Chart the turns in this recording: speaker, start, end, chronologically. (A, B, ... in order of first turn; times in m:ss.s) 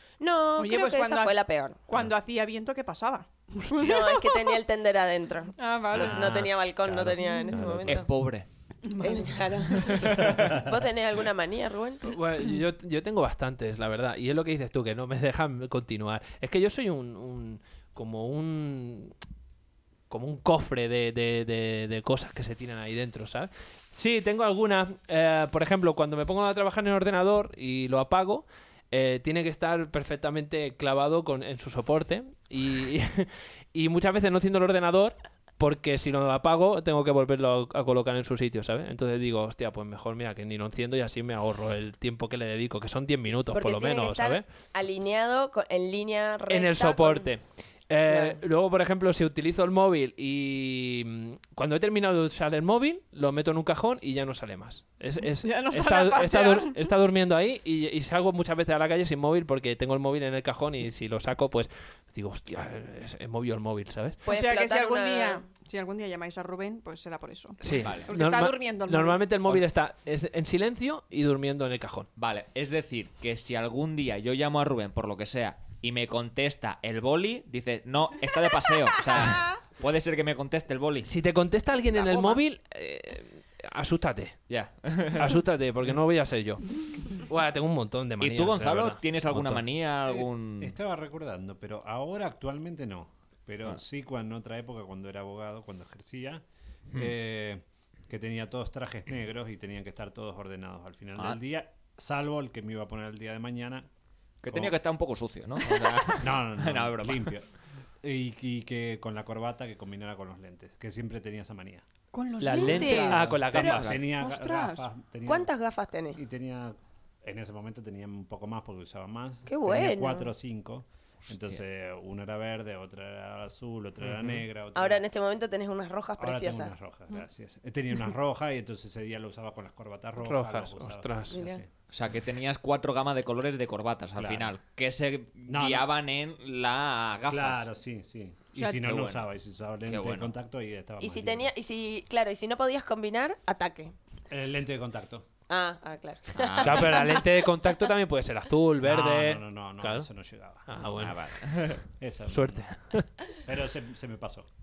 0:00.2-0:01.8 A
0:00.6-0:04.6 B
0:03.8-0:08.1 A
0:05.6-0:06.5 B
0:06.0-0:08.0 C
0:07.2-0:07.6 B
0:07.6-0:07.8 D
0:07.8-0:08.5 E
0:08.8-0:10.1 B
0:09.0-0:12.1 A
0:09.7-0:10.6 E
0:12.0-0:19.1 C
0:20.1-0:44.4 C
0:43.5-0:47.3 A
0:46.5-1:04.2 C
0:48.1-0:48.4 A
0:55.4-0:56.9 B
1:04.2-1:09.3 B
1:04.2-1:05.4 A
1:07.6-1:12.1 C
1:07.7-1:08.1 E
1:12.2-1:21.1 E
1:21.0-1:24.4 C
1:22.1-1:22.4 B
1:24.5-1:25.4 E
1:25.1-1:29.6 C
1:28.2-1:30.7 E
1:30.1-1:43.9 D
1:44.4-1:47.3 E
1:46.2-1:47.5 D
1:48.0-1:51.8 D
1:52.1-1:54.8 B
1:52.4-1:54.0 C
1:52.4-1:53.0 A
1:52.6-1:55.5 D
1:52.9-1:54.0 E
1:55.2-1:56.2 A
1:56.2-2:05.0 D
1:59.5-2:00.3 A
2:01.3-2:01.6 E
2:04.0-2:04.4 C
2:04.7-2:06.8 A
2:06.2-2:11.7 D
2:10.2-2:11.4 C
2:11.3-2:11.6 A
2:11.9-2:17.7 E
2:14.2-2:14.5 D
2:15.5-2:15.9 D
2:17.3-2:21.5 D
2:18.6-2:19.3 E
2:19.8-2:20.4 E
2:21.0-2:23.9 A
2:24.3-2:25.2 D
2:25.5-2:27.5 A
2:26.3-2:27.0 E
2:26.6-2:30.1 C
2:28.8-2:30.7 D
2:30.6-2:31.4 C
2:31.0-2:31.8 E
2:31.9-2:32.6 D
2:32.3-2:33.1 C
2:33.4-2:34.5 D